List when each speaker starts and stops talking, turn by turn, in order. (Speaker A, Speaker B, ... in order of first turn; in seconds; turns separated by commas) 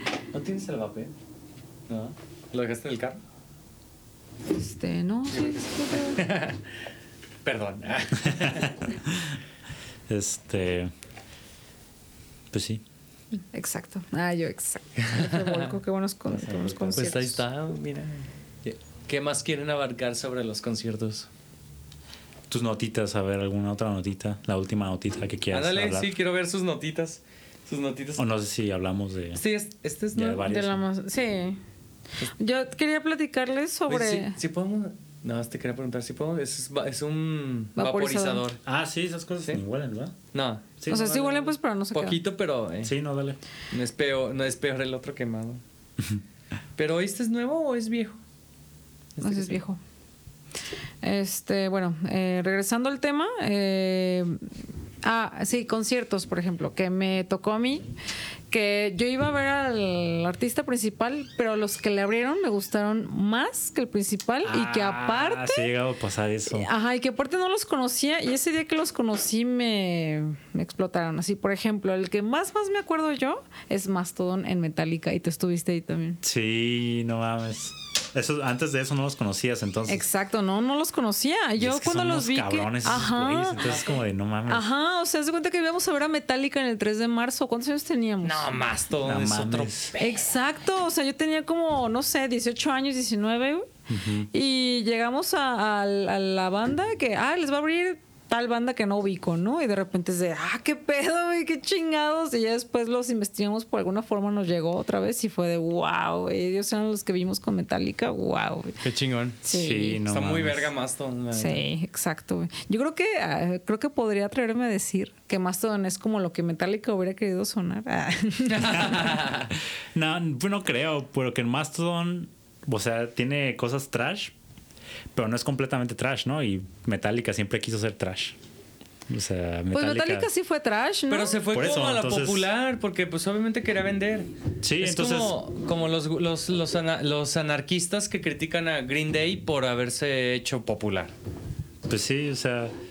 Speaker A: 0.3-1.1, Speaker A: 1.9-3.2, Speaker B: 4.5-6.2, Speaker A: 5.5-6.6, Speaker A: 7.4-8.9, Speaker C: 8.3-9.4, Speaker C: 10.1-10.9, Speaker C: 12.5-12.8, Speaker B: 13.5-17.4, Speaker A: 15.0-15.7, Speaker A: 16.3-21.3, Speaker C: 16.8-17.2, Speaker C: 22.5-26.1, Speaker A: 25.5-28.3, Speaker C: 28.2-29.4, Speaker A: 29.4-30.5, Speaker C: 30.1-30.8, Speaker B: 30.2-31.6, Speaker B: 32.3-34.4, Speaker A: 33.9-38.6, Speaker B: 37.8-38.4, Speaker C: 38.6-40.2, Speaker A: 40.3-43.0, Speaker C: 40.8-41.2, Speaker B: 40.9-42.2, Speaker C: 42.8-43.4, Speaker A: 43.7-45.6, Speaker A: 46.8-48.2, Speaker A: 49.2-49.6, Speaker B: 49.2-49.8, Speaker B: 51.0-54.4, Speaker B: 55.0-57.9, Speaker B: 58.5-65.7, Speaker C: 64.4-66.7, Speaker B: 66.5-76.2, Speaker C: 76.2-80.1, Speaker B: 79.9-83.6, Speaker C: 81.6-84.7, Speaker A: 83.6-84.0, Speaker B: 84.5-88.5, Speaker A: 88.2-90.1, Speaker C: 89.0-89.9, Speaker B: 90.0-93.7, Speaker C: 93.9-94.3, Speaker B: 94.3-108.8, Speaker A: 108.8-109.4, Speaker B: 109.4-110.0, Speaker C: 109.5-110.7, Speaker A: 110.1-111.6, Speaker B: 111.3-119.2, Speaker A: 118.5-119.5, Speaker C: 118.6-124.3, Speaker C: 125.1-128.4, Speaker C: 129.1-130.3, Speaker B: 129.7-131.4, Speaker A: 131.1-141.1, Speaker C: 131.5-132.5, Speaker C: 134.6-135.4, Speaker C: 141.9-142.7